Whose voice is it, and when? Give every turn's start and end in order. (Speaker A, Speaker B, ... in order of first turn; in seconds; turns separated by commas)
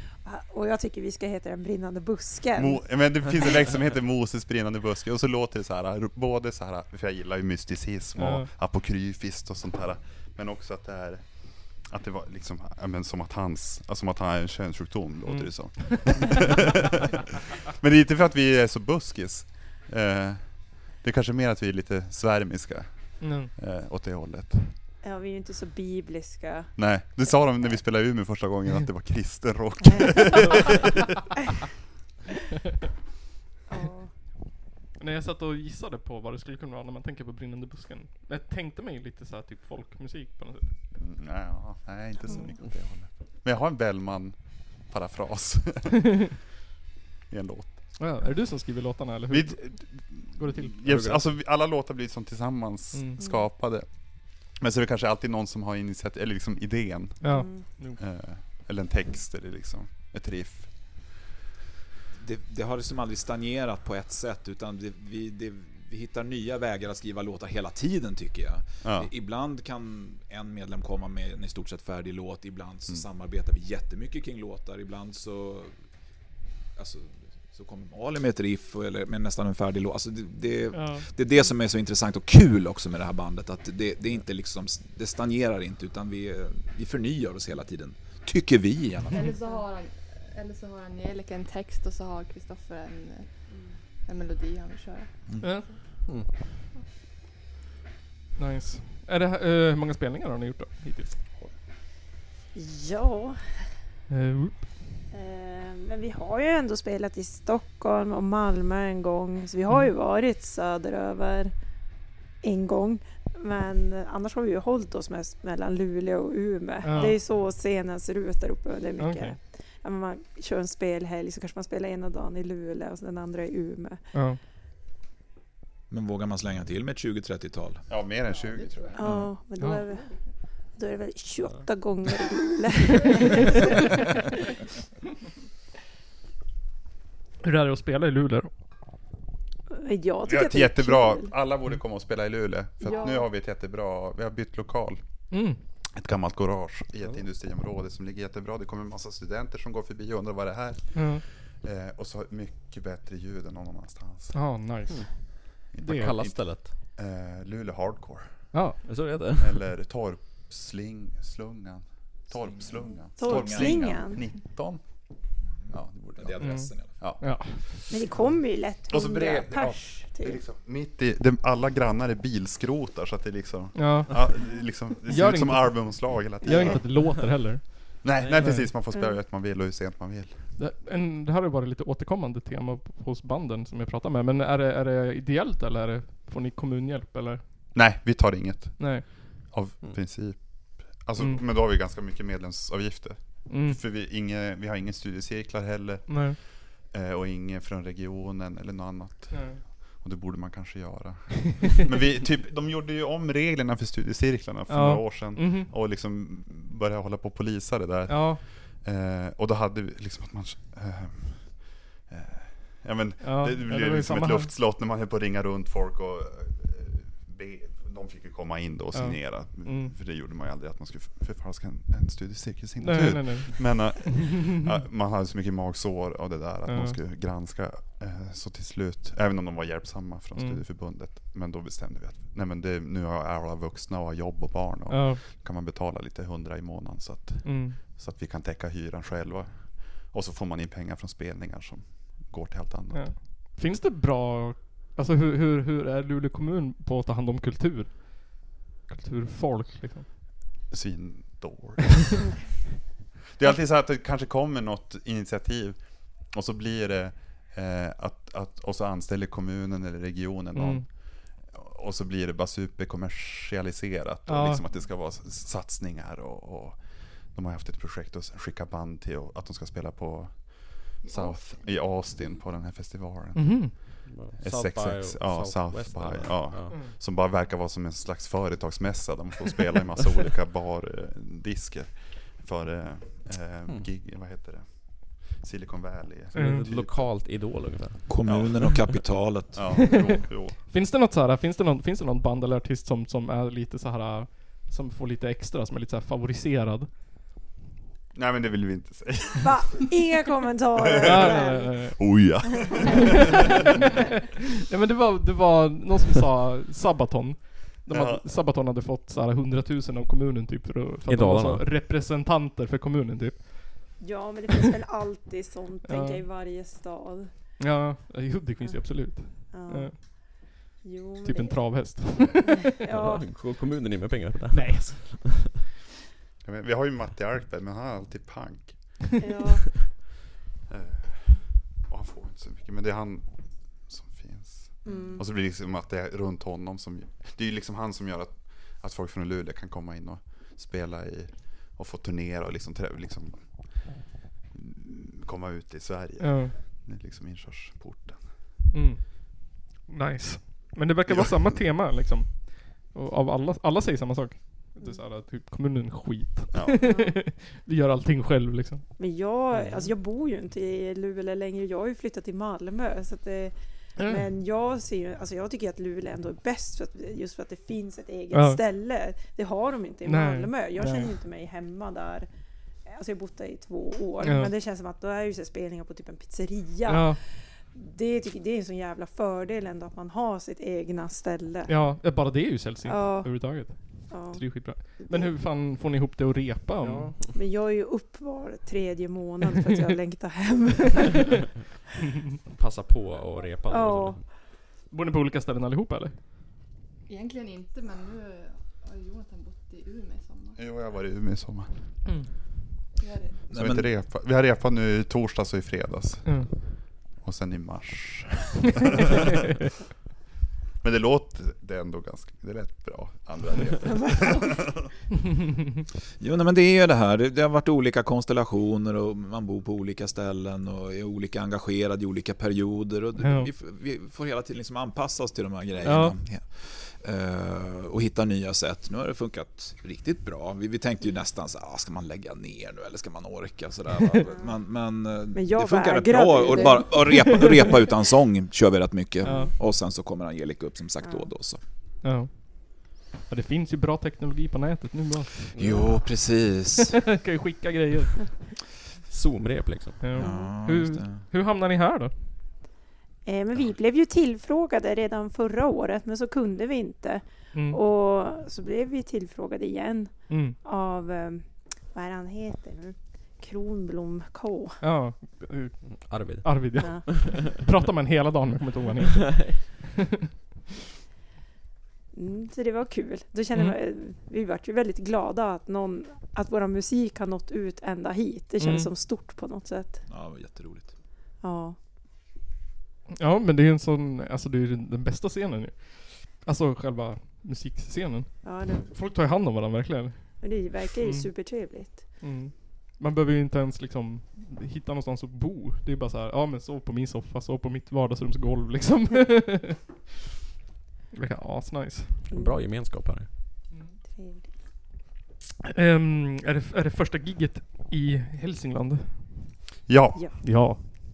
Speaker A: 0.2-2.8, Speaker B: 2.6-24.8, Speaker C: 8.2-8.5, Speaker C: 15.2-16.2, Speaker C: 23.2-23.5, Speaker A: 25.0-26.8, Speaker B: 26.8-30.9, Speaker A: 30.0-30.3, Speaker A: 33.7-34.1, Speaker C: 35.0-40.8, Speaker B: 41.0-46.0, Speaker B: 47.3-48.1, Speaker C: 48.0-51.0, Speaker B: 49.3-61.1, Speaker D: 50.9-51.2, Speaker C: 52.9-53.2, Speaker A: 53.2-53.4, Speaker C: 57.2-58.0, Speaker A: 57.3-57.6, Speaker E: 62.2-75.7, Speaker B: 68.8-69.1, Speaker E: 76.8-89.3, Speaker C: 80.7-81.1, Speaker F: 89.1-95.8, Speaker C: 95.4-95.7, Speaker C: 98.4-101.2, Speaker A: 102.5-103.4, Speaker C: 104.1-104.8, Speaker A: 105.1-111.5, Speaker A: 112.4-124.0, Speaker C: 116.8-117.2, Speaker C: 119.0-119.4, Speaker C: 124.1-124.4, Speaker E: 125.9-127.8, Speaker B: 127.9-129.1, Speaker F: 128.2-129.1, Speaker A: 128.9-130.1, Speaker C: 129.1-129.8, Speaker F: 129.8-130.3, Speaker A: 130.7-133.6, Speaker F: 133.0-133.7, Speaker C: 137.4-138.5, Speaker A: 139.7-141.3, Speaker B: 140.3-145.0, Speaker A: 142.8-143.1, Speaker F: 142.9-143.2, Speaker C: 145.3-145.6, Speaker B: 145.9-154.4, Speaker C: 150.9-151.2, Speaker C: 154.3-155.1, Speaker D: 154.9-156.7, Speaker B: 155.7-167.8, Speaker C: 155.8-156.1, Speaker C: 158.5-158.8, Speaker D: 158.8-159.7, Speaker E: 162.3-164.0, Speaker A: 163.2-164.2, Speaker E: 165.6-167.2, Speaker C: 166.4-167.7, Speaker A: 167.9-170.4, Speaker B: 168.9-177.3, Speaker C: 173.8-174.3, Speaker C: 175.0-178.7, Speaker B: 178.0-180.5, Speaker D: 178.2-178.5, Speaker C: 180.6-187.7, Speaker B: 187.7-243.2, Speaker C: 188.8-189.5, Speaker C: 191.2-191.4, Speaker C: 193.5-193.8, Speaker C: 196.1-196.4, Speaker C: 199.3-199.6, Speaker C: 204.7-205.7, Speaker C: 208.1-208.5, Speaker C: 213.2-214.6, Speaker C: 218.9-219.9, Speaker C: 222.8-224.6, Speaker C: 226.7-227.0, Speaker C: 230.3-230.6, Speaker C: 234.9-235.2, Speaker C: 237.4-237.9, Speaker C: 242.9-250.1, Speaker B: 250.7-252.2, Speaker B: 253.3-287.1, Speaker C: 260.5-260.9, Speaker C: 264.3-264.6, Speaker F: 271.0-272.4, Speaker C: 273.3-274.0, Speaker D: 274.1-276.8, Speaker C: 286.3-286.7, Speaker D: 286.4-288.1, Speaker E: 288.1-289.8, Speaker B: 288.2-288.9, Speaker B: 289.5-290.6, Speaker C: 289.9-296.9, Speaker B: 298.1-299.9, Speaker A: 299.4-302.9, Speaker B: 300.8-303.3, Speaker C: 301.0-302.1, Speaker C: 302.9-304.0, Speaker C: 304.6-313.9, Speaker B: 307.9-308.3, Speaker D: 311.1-311.7, Speaker A: 314.0-317.3, Speaker C: 315.9-316.3, Speaker C: 317.6-320.0, Speaker A: 318.6-323.2, Speaker C: 321.2-322.7, Speaker D: 322.9-325.2, Speaker C: 324.5-325.4, Speaker B: 326.4-329.0, Speaker A: 329.2-329.7, Speaker B: 330.7-344.0, Speaker A: 334.8-335.3, Speaker B: 344.5-348.4, Speaker C: 346.2-346.6, Speaker C: 348.7-358.9, Speaker B: 351.1-351.6, Speaker B: 356.5-356.8, Speaker A: 356.8-357.1, Speaker A: 359.0-372.3, Speaker C: 364.0-364.3, Speaker C: 368.3-368.6, Speaker C: 370.1-371.1, Speaker A: 372.9-381.7, Speaker C: 374.2-374.5, Speaker C: 376.9-377.2, Speaker C: 381.7-387.1, Speaker A: 382.9-385.3, Speaker D: 386.8-387.3, Speaker A: 387.3-391.2, Speaker D: 392.5-394.2, Speaker A: 393.7-394.2, Speaker C: 394.9-396.2, Speaker F: 397.1-400.6, Speaker B: 400.6-401.9, Speaker C: 402.1-402.3, Speaker F: 403.0-403.4, Speaker E: 403.5-403.9, Speaker B: 403.5-408.7, Speaker C: 406.2-406.7, Speaker B: 410.8-414.9, Speaker A: 413.9-414.4, Speaker E: 416.2-441.6, Speaker C: 423.2-423.5, Speaker C: 425.8-426.2, Speaker A: 435.3-437.5, Speaker C: 437.2-437.6, Speaker A: 439.2-439.5, Speaker C: 439.2-439.5, Speaker C: 442.0-445.3, Speaker D: 445.5-446.0, Speaker E: 445.6-446.9, Speaker C: 446.9-448.4, Speaker D: 449.1-450.0, Speaker C: 450.0-452.3, Speaker E: 450.2-451.3, Speaker A: 453.2-464.8, Speaker C: 457.5-457.8, Speaker C: 460.3-460.6, Speaker C: 464.8-470.1, Speaker D: 465.9-467.5, Speaker D: 469.1-469.6, Speaker A: 472.1-480.0, Speaker C: 478.6-478.9, Speaker E: 480.1-480.9, Speaker A: 481.4-481.8, Speaker C: 483.1-491.6, Speaker A: 488.4-488.9, Speaker A: 490.4-492.0, Speaker C: 492.2-499.9, Speaker C: 501.1-502.3, Speaker A: 502.3-502.6, Speaker D: 502.3-503.3, Speaker A: 504.1-504.5, Speaker C: 505.6-509.7, Speaker B: 509.9-510.9, Speaker C: 510.4-510.9